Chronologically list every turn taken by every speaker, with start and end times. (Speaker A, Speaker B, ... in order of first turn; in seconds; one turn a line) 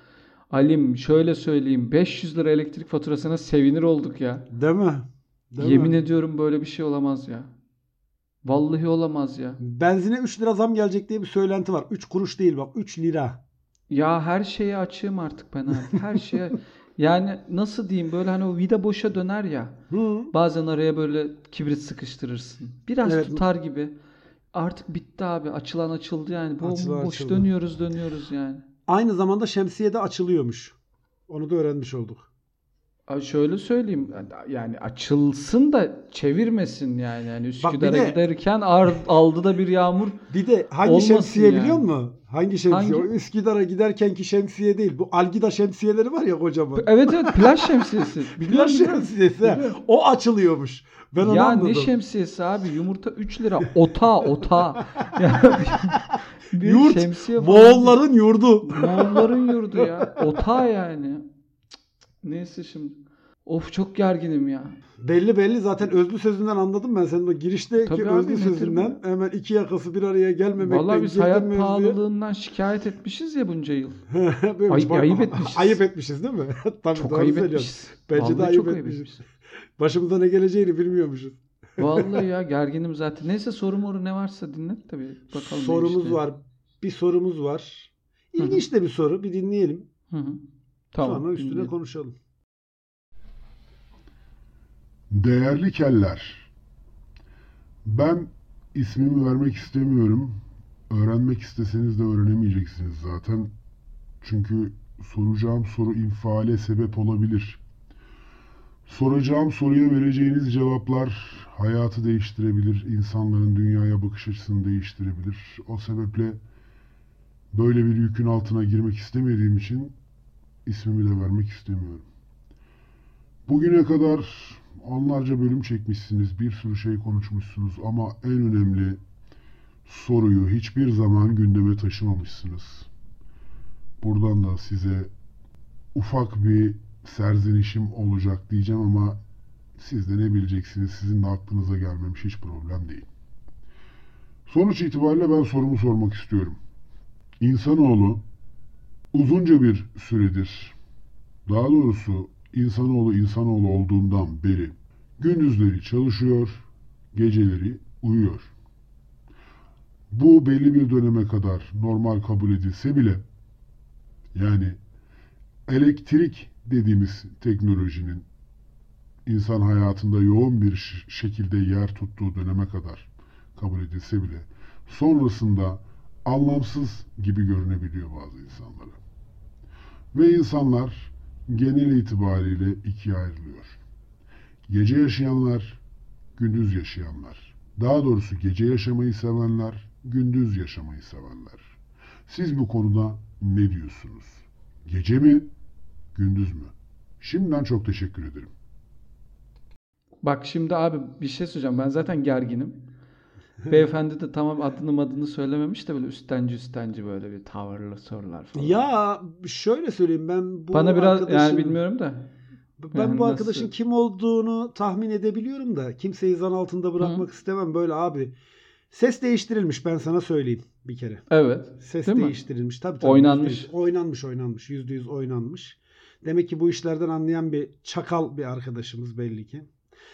Speaker A: 0.5-4.5
Speaker B: 4.5-6.0
Speaker A: 5.6-7.5
Speaker A: 8.4-9.6
Speaker B: 9.6-13.4
Speaker A: 13.9-19.8
Speaker B: 19.9-20.3
Speaker A: 20.3-23.9
Speaker B: 23.0-23.4
Speaker A: 24.5-28.6
Speaker B: 26.6-27.5
Speaker B: 28.9-30.7
Speaker B: 31.3-32.3
Speaker A: 33.1-40.2
Speaker B: 37.6-38.2
Speaker B: 40.3-51.9
Speaker A: 40.8-41.9
Speaker A: 42.7-43.1
Speaker A: 46.8-49.8
Speaker A: 51.2-58.0
Speaker B: 56.6-60.4
Speaker A: 58.6-61.2
Speaker A: 62.2-64.8
Speaker B: 65.0-72.0
Speaker A: 67.8-69.0
Speaker A: 70.6-74.0
Speaker B: 74.1-79.1
Speaker A: 74.7-75.8
Speaker A: 77.0-79.2
Speaker B: 79.8-82.2
Speaker A: 81.8-86.2
Speaker B: 85.3-89.8
Speaker A: 88.4-88.6
Speaker A: 90.1-90.4
Speaker A: 90.9-91.7
Speaker B: 91.0-92.1
Speaker C: 95.1-96.5
Speaker C: 97.8-103.5
Speaker C: 104.2-107.6
Speaker C: 108.8-116.4
Speaker C: 117.5-119.9
Speaker C: 120.6-122.0
Speaker C: 123.5-129.0
Speaker C: 129.8-132.9
Speaker C: 134.0-135.1
Speaker C: 135.9-139.2
Speaker C: 139.8-143.1
Speaker C: 144.5-146.6
Speaker C: 147.4-148.2
Speaker C: 149.1-150.8
Speaker C: 151.4-158.5
Speaker C: 160.1-163.2
Speaker C: 164.3-164.8
Speaker C: 165.7-168.2
Speaker C: 169.2-179.0
Speaker C: 180.1-183.8
Speaker C: 184.7-185.8
Speaker C: 186.3-191.7
Speaker C: 192.3-195.5
Speaker C: 196.1-198.5
Speaker A: 200.2-202.8
Speaker A: 203.7-208.8
Speaker B: 208.5-211.8
Speaker A: 210.7-212.3
Speaker B: 212.8-218.3
Speaker A: 212.9-213.7
Speaker A: 217.0-217.2
Speaker B: 218.9-221.2
Speaker A: 221.3-222.3
Speaker B: 221.8-229.7
Speaker A: 223.0-223.7